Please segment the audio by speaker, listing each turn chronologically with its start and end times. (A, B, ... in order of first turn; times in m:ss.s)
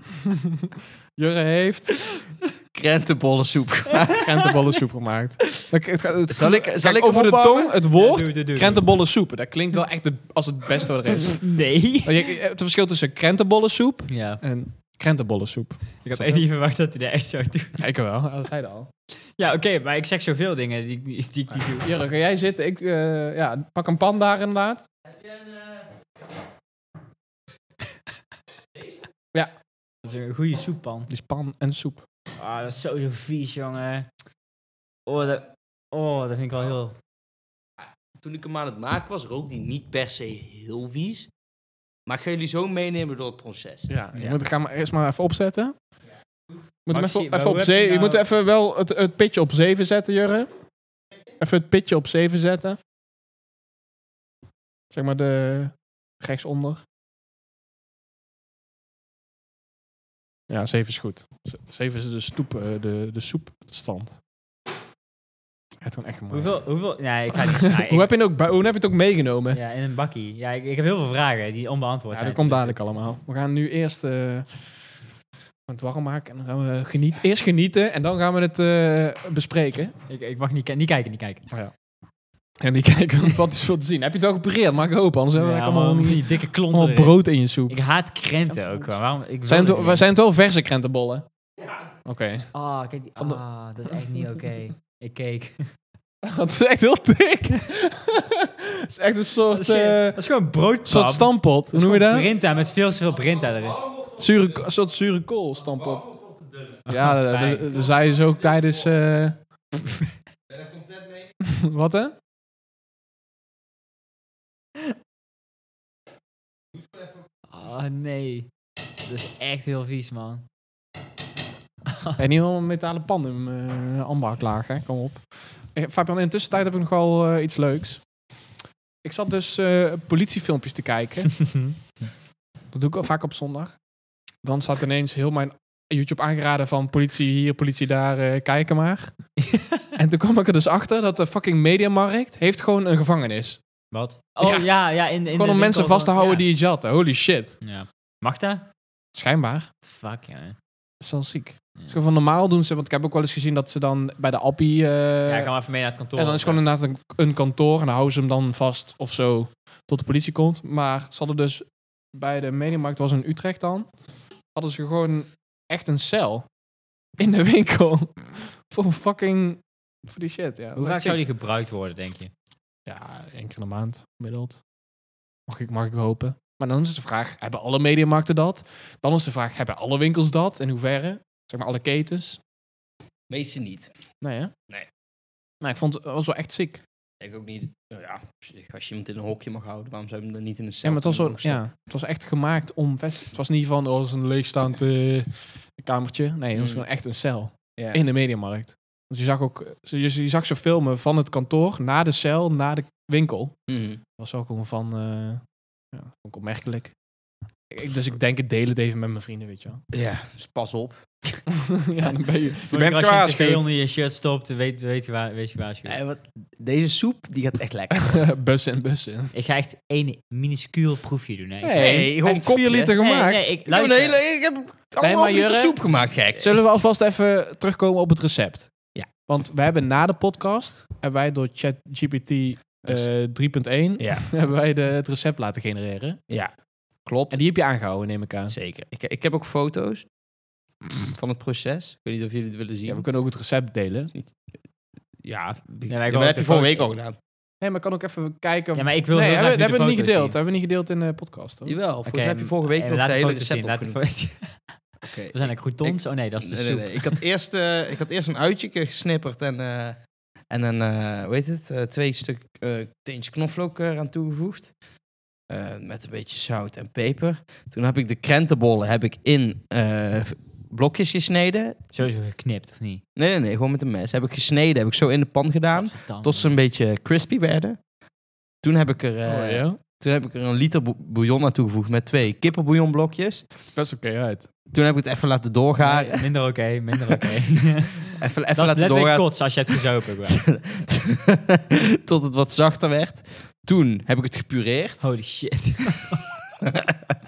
0:00.2-0:02.0 A
0:02.7-0:04.2 B
0:04.2-0:16.4 A
0:06.3-0:07.8 B
0:07.9-0:08.8 C
0:11.3-0:12.3 C
0:14.1-0:14.4 C
0:16.0-0:17.8 C
0:17.8-0:18.9 A
0:19.4-0:21.9 C
0:21.8-0:24.8 A
0:30.0-0:31.1 C
0:31.1-0:32.0 A
0:32.4-0:34.1 C
0:35.0-0:36.9 C
0:38.2-0:41.3 B
0:42.0-0:43.9 B
0:43.9-0:45.7 A
0:44.1-0:44.4 C
0:46.8-0:50.5 A
0:46.9-0:48.2 C
0:51.4-0:52.8 A
0:54.9-0:56.8 A
1:00.5-1:04.2 A
1:05.8-1:06.6 A
1:06.3-1:08.1 C
1:07.3-1:09.6 A
1:09.5-1:12.8 C
1:12.1-1:14.6 A
1:15.7-1:19.9 A
1:20.1-1:21.4 C
1:22.6-1:27.8 A
1:25.4-1:27.2 C
1:27.7-1:30.0 C
1:29.4-1:31.2 A
1:32.0-1:32.5 A
1:32.5-1:35.7 C
1:36.2-1:40.2 A
1:39.5-1:43.9 C
1:40.8-1:42.3 A
1:44.2-1:46.1 A
1:46.0-1:46.7 B
1:46.9-1:47.7 C
1:46.9-1:49.4 A
1:50.5-1:51.3 B
1:51.4-1:52.1 A
1:57.5-1:58.5 C
1:59.0-2:00.4 C
2:01.9-2:02.2 C
2:02.2-2:08.0 A
2:09.0-2:11.6 A
2:12.7-2:13.8 A
2:14.4-2:19.3 A
2:19.5-2:19.8 C
2:20.0-2:23.6 A
2:23.9-2:26.4 C
2:24.4-2:24.7 A
2:25.3-2:27.6 A
2:27.6-2:28.7 C
2:29.1-2:29.7 A
2:29.8-2:30.6 C
2:31.0-2:35.5 A
2:35.3-2:36.6 C
2:36.2-2:43.9 A
2:44.5-2:46.4 A
2:47.2-2:51.2 A
2:50.8-2:52.3 C
2:52.8-2:54.6 A
2:55.5-3:02.4 A
3:03.3-3:03.9 B
3:04.2-3:04.5 A
3:05.6-3:06.8 A
3:07.2-3:11.6 B
3:10.8-3:23.6 A
3:16.5-3:16.8 B
3:17.8-3:18.0 B
3:23.7-3:24.0 B
3:24.1-3:27.0 A
3:27.7-3:29.8 A
3:29.9-3:31.0 B
3:31.5-3:33.7 A
3:32.7-3:36.0 C
3:35.8-3:38.3 B
3:37.9-3:39.3 A
3:39.3-3:42.0 C
3:41.6-3:43.5 A
3:41.8-3:43.0 B
3:43.0-3:44.2 C
3:43.6-3:46.6 B
3:45.0-3:45.8 A
3:46.3-3:48.7 A
3:49.3-3:56.2 A
3:54.0-3:54.3 B
3:57.0-3:57.4 B
3:57.3-3:58.5 A
3:58.5-4:00.0 B
4:01.0-4:03.0 B
4:02.9-4:04.1 A
4:05.2-4:07.2 B
4:05.9-4:06.9 C
4:07.6-4:11.8 A
4:08.7-4:10.3 C
4:11.6-4:14.0 B
4:12.0-4:17.2 C
4:15.0-4:20.0 B
4:20.5-4:24.7 B
4:25.5-4:31.8 B
4:31.9-4:33.0 C
4:33.2-4:37.8 B
4:35.7-4:36.6 C
4:38.6-4:43.4 B
4:39.2-4:39.8 A
4:43.6-4:44.5 A
4:44.7-4:46.2 B
4:45.8-4:50.5 C
4:48.2-4:49.7 B
4:50.3-4:55.0 B
4:55.0-4:56.2 C
4:56.7-4:56.9 B